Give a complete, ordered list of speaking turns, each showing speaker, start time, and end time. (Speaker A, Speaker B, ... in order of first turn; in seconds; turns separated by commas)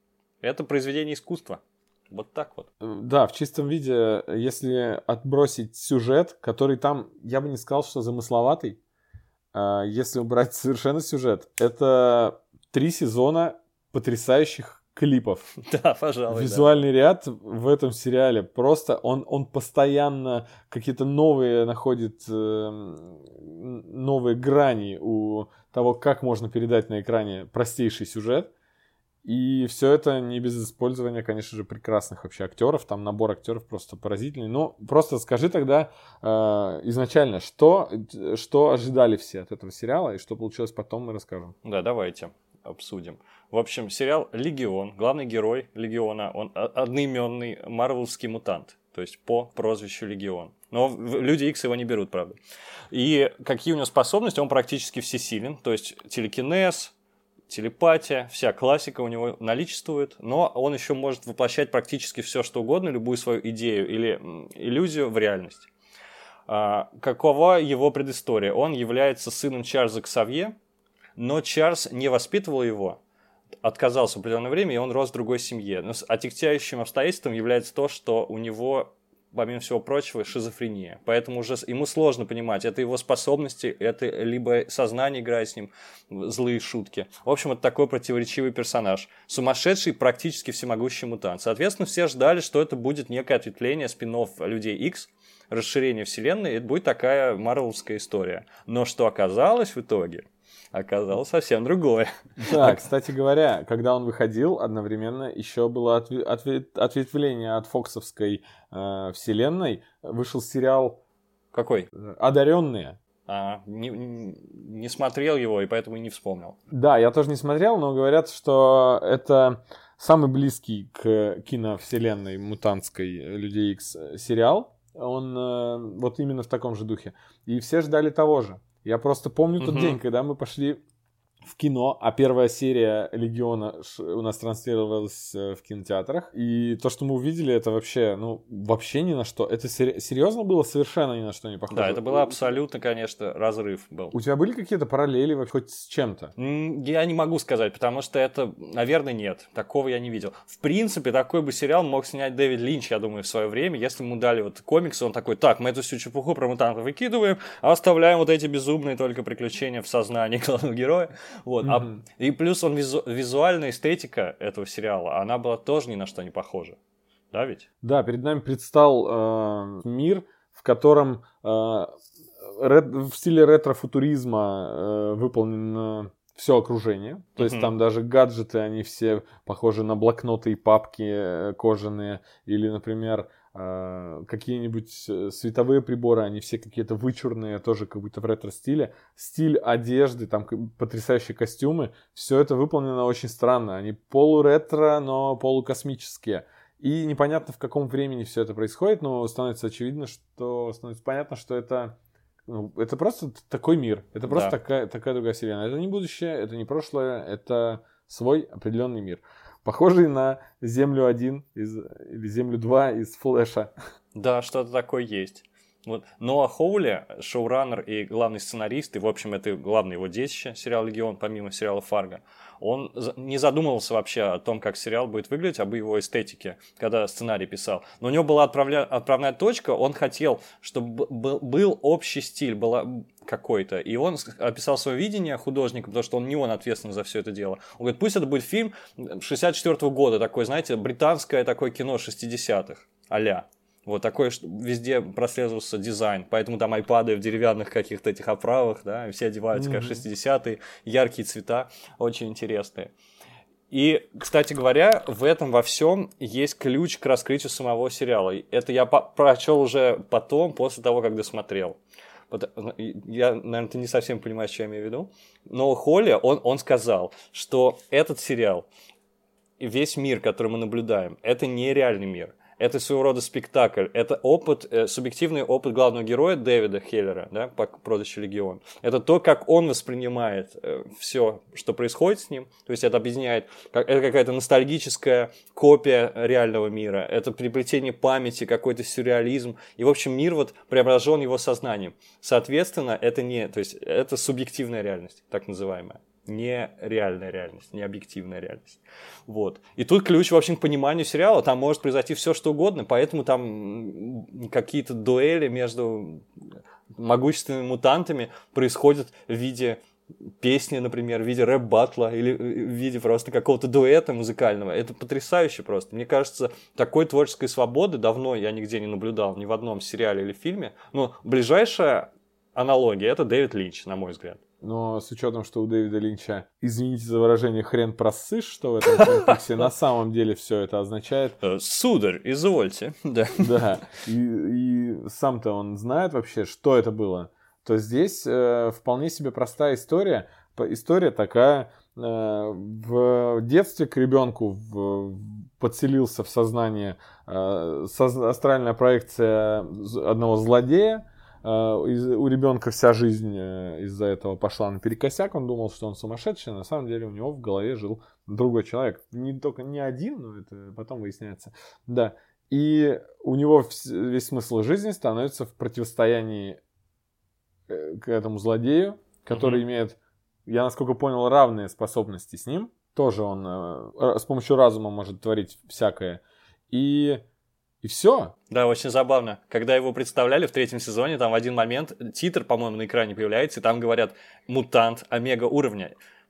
Speaker A: 0.4-2.7, Speaker B: 2.8-8.8, Speaker B: 9.5-15.5, Speaker A: 15.6-16.8, Speaker B: 16.3-28.5, Speaker B: 29.2-41.5, Speaker A: 41.6-52.4, Speaker A: 52.9-56.9, Speaker A: 57.5-65.7, Speaker A: 66.5-70.6, Speaker A: 71.2-73.0, Speaker A: 73.6-102.8, Speaker B: 102.4-111.0, Speaker A: 111.5-111.9, Speaker B: 111.9-113.0, Speaker A: 113.3-116.6, Speaker B: 116.7-130.8, Speaker A: 129.6-130.0, Speaker B: 131.4-142.4, Speaker A: 141.7-144.1, Speaker B: 144.1-146.3, Speaker A: 146.4-166.8, Speaker B: 161.6-162.0, Speaker A: 167.3-167.7, Speaker B: 167.8-213.7, Speaker A: 177.4-177.7, Speaker A: 204.3-204.6, Speaker A: 214.2-252.9, Speaker B: 249.5-250.0, Speaker A: 253.7-261.8, Speaker A: 262.3-268.7, Speaker A: 269.6-306.4, Speaker A: 306.9-309.8, Speaker A: 310.4-324.4, Speaker B: 324.6-331.4, Speaker A: 331.4-333.6, Speaker B: 333.4-366.6, Speaker B: 367.7-377.2, Speaker A: 369.3-369.6, Speaker B: 377.8-378.3, Speaker A: 378.5-385.9